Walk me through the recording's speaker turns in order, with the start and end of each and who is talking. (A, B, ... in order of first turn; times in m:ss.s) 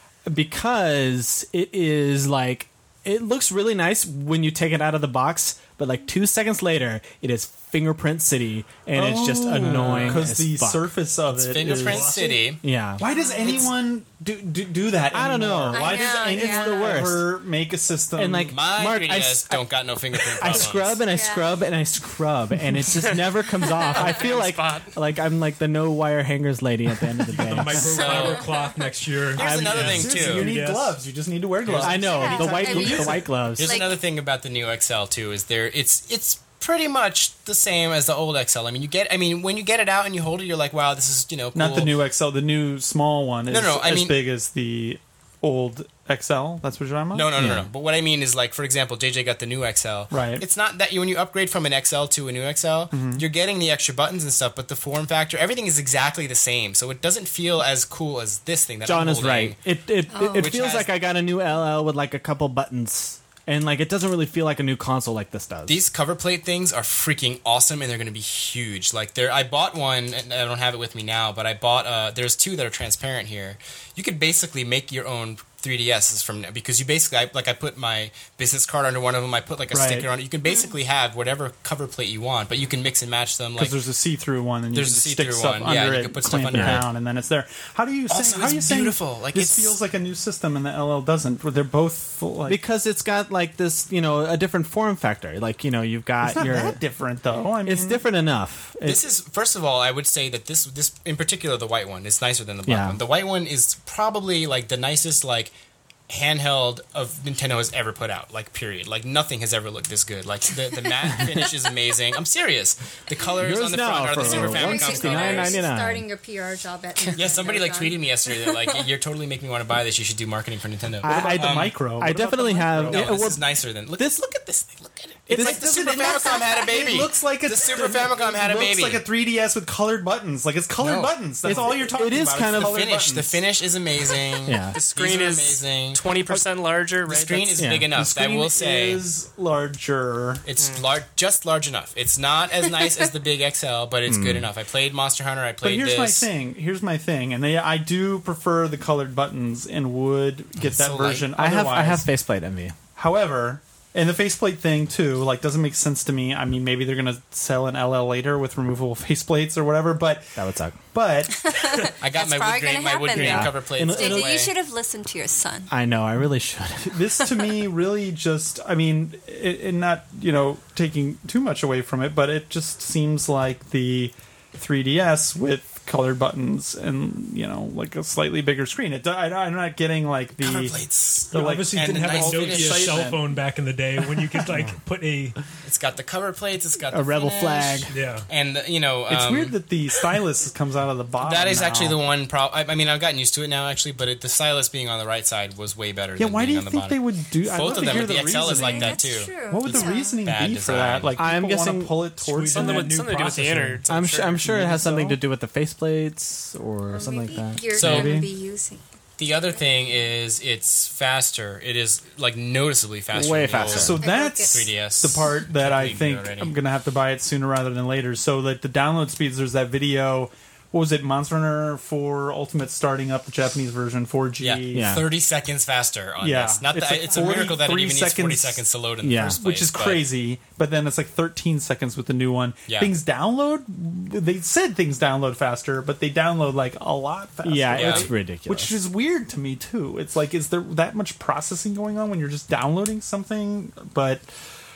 0:00.2-0:10.9 A
0:08.9-0:12.2 B
0:09.7-0:10.0 C
0:11.3-0:12.6 D
0:11.6-0:12.4 C
0:12.6-0:13.0 A
0:13.0-0:18.6 B
0:13.0-0:13.7 E
0:15.1-0:17.4 A
0:15.7-0:17.1 E
0:18.2-0:19.6 A
0:18.5-0:21.0 D
0:20.3-0:28.1 A
0:21.1-0:21.5 E
0:23.8-0:24.9 F
0:27.2-0:31.0 C
0:27.9-0:28.5 D
0:28.0-0:28.7 E
0:29.3-0:30.5 D
0:29.4-0:30.0 A
0:29.7-0:33.3 B
0:31.6-0:32.0 C
0:31.8-0:33.8 A
0:32.0-0:34.0 E
0:33.6-0:41.9 D
0:41.5-0:47.3 B
0:43.5-0:44.2 D
0:47.1-0:59.6 D
0:47.4-0:47.7 A
0:50.1-0:50.4 B
0:52.9-0:53.2 B
0:58.8-1:05.8 A
1:00.1-1:00.5 E
1:00.3-1:00.9 D
1:05.7-1:23.8 D
1:19.7-1:20.1 B
1:23.6-1:32.6 B
1:24.7-1:26.9 D
1:26.5-1:26.8 A
1:28.1-1:29.8 D
1:32.5-1:36.8 A
1:36.2-1:38.0 B
1:37.6-1:39.0 A
1:38.8-1:45.5 D
1:42.6-1:43.0 A
1:46.1-1:55.6 D
1:53.4-1:56.0 A
1:54.2-1:58.8 E
1:57.1-2:01.8 D
2:01.0-2:03.4 A
2:01.0-2:03.2 B
2:02.8-2:09.0 D
2:04.0-2:04.3 A
2:05.3-2:13.4 B
2:05.3-2:06.0 A
2:10.8-2:11.7 D
2:11.4-2:12.8 A
2:12.5-2:16.4 D
2:14.4-2:14.8 A
2:14.7-2:17.6 F
2:17.0-2:19.0 D
2:17.6-2:17.9 A
2:17.9-2:20.4 B
2:20.4-2:26.3 D
2:20.6-2:20.8 F
2:24.1-2:24.5 A
2:25.6-2:32.1 B
2:30.6-2:31.3 D
2:31.4-2:32.7 A
2:33.0-2:41.5 B
2:40.4-2:40.8 A
2:41.4-2:45.7 E
2:42.0-2:44.5 D
2:43.1-2:44.4 A
2:45.7-2:47.1 A
2:46.9-3:00.8 B
3:00.4-3:03.1 D
3:01.3-3:03.4 B
3:01.3-3:05.4 C
3:05.6-3:09.6 D
3:06.9-3:07.9 A
3:07.3-3:07.6 E
3:07.9-3:08.3 C
3:09.1-3:12.0 B
3:11.2-3:21.1 D
3:16.2-3:23.0 B
3:18.5-3:20.2 E
3:21.2-3:22.0 A
3:22.2-3:23.9 C
3:22.5-3:24.5 F
3:23.9-3:27.6 A
3:24.4-3:25.2 B
3:26.9-3:28.8 E
3:27.8-3:28.2 D
3:27.8-3:28.3 B
3:29.2-3:36.5 D
3:33.1-3:34.0 A
3:33.7-3:45.0 B
3:34.0-3:34.6 E
3:44.4-3:50.1 D
3:44.7-3:45.0 A
3:46.2-3:48.6 B
3:49.0-3:49.4 A
3:49.2-4:04.2 B
3:52.7-3:52.9 D
3:57.4-3:58.7 A
3:57.7-3:58.1 D